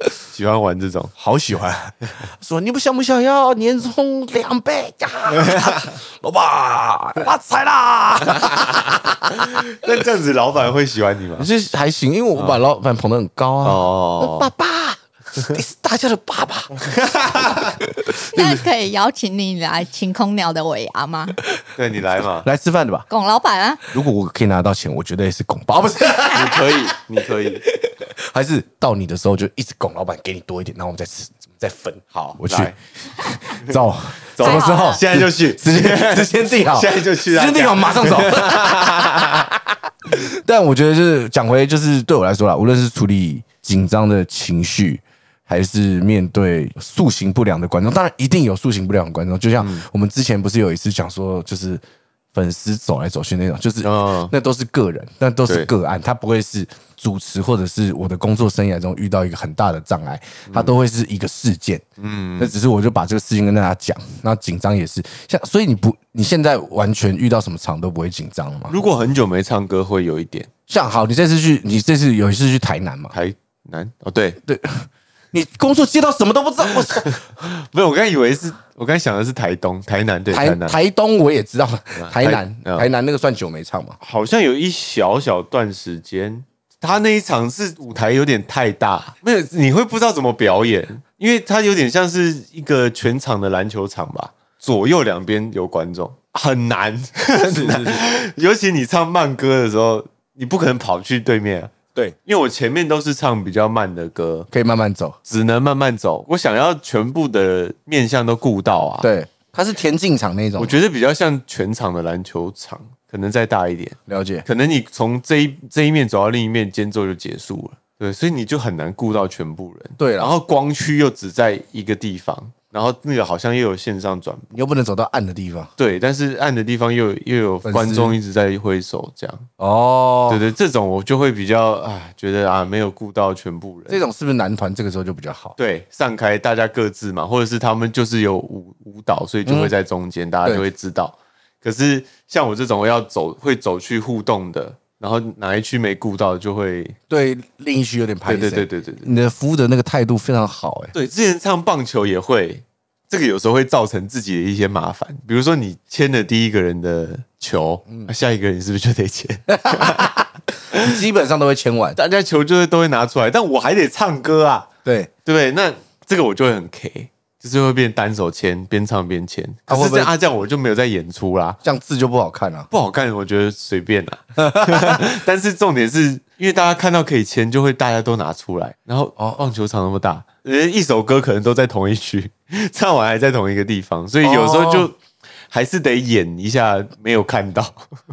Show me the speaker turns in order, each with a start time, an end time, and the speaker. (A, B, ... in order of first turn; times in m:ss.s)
0:00.3-0:01.1 A
0:01.2-0:09.6 B
0:09.4-0:11.5 A
0:11.4-0:16.7 B
0:13.6-0:14.5 A
0:16.9-0:17.6 A
0:17.3-0:18.6 B
0:18.3-0:21.4 C
0:21.8-0:22.5 A
0:22.4-0:23.0 B
0:23.1-0:23.8 C
0:23.9-0:26.9 B
0:26.3-0:27.6 A
0:27.6-0:51.8 B
0:32.3-0:32.8 A
0:34.3-0:39.5 A
0:34.4-0:35.0 C
0:49.6-0:49.8 A
0:52.3-1:01.8 B
0:53.8-0:54.3 A
1:00.5-1:00.7 A
1:02.0-1:02.5 A
1:02.4-1:08.8 B
1:08.7-1:10.5 A
1:10.7-1:13.1 B
1:13.1-1:14.4 A
1:14.4-1:17.2 B
1:16.9-1:20.8 A
1:20.3-1:24.0 B
1:22.0-1:22.9 A
1:24.0-1:41.7 A
1:37.4-1:38.0 B
1:42.2-1:44.5 A
1:44.5-1:45.2 B
1:45.2-1:49.1 A
1:49.0-1:50.7 B
1:50.6-2:04.5 A
1:54.1-1:54.4 B
2:00.0-2:00.3 B
2:04.5-2:05.7 B
2:05.8-2:09.5 A
2:07.6-2:08.2 B
2:09.6-2:10.4 B
2:10.3-2:14.0 A
2:13.9-2:15.5 B
2:15.6-2:27.0 A
2:19.4-2:19.7 B
2:27.1-2:30.9 B
2:28.2-2:29.1 A
2:30.9-2:41.0 A
2:39.5-2:42.0 B
2:41.9-2:44.7 A
2:44.8-2:45.1 B
2:45.2-2:51.6 A
2:49.7-2:50.1 B
2:51.6-2:52.7 B
2:52.7-3:05.0 A
2:54.4-2:55.0 B
2:59.2-2:59.4 B
3:04.2-3:04.9 B
3:05.5-3:07.8 A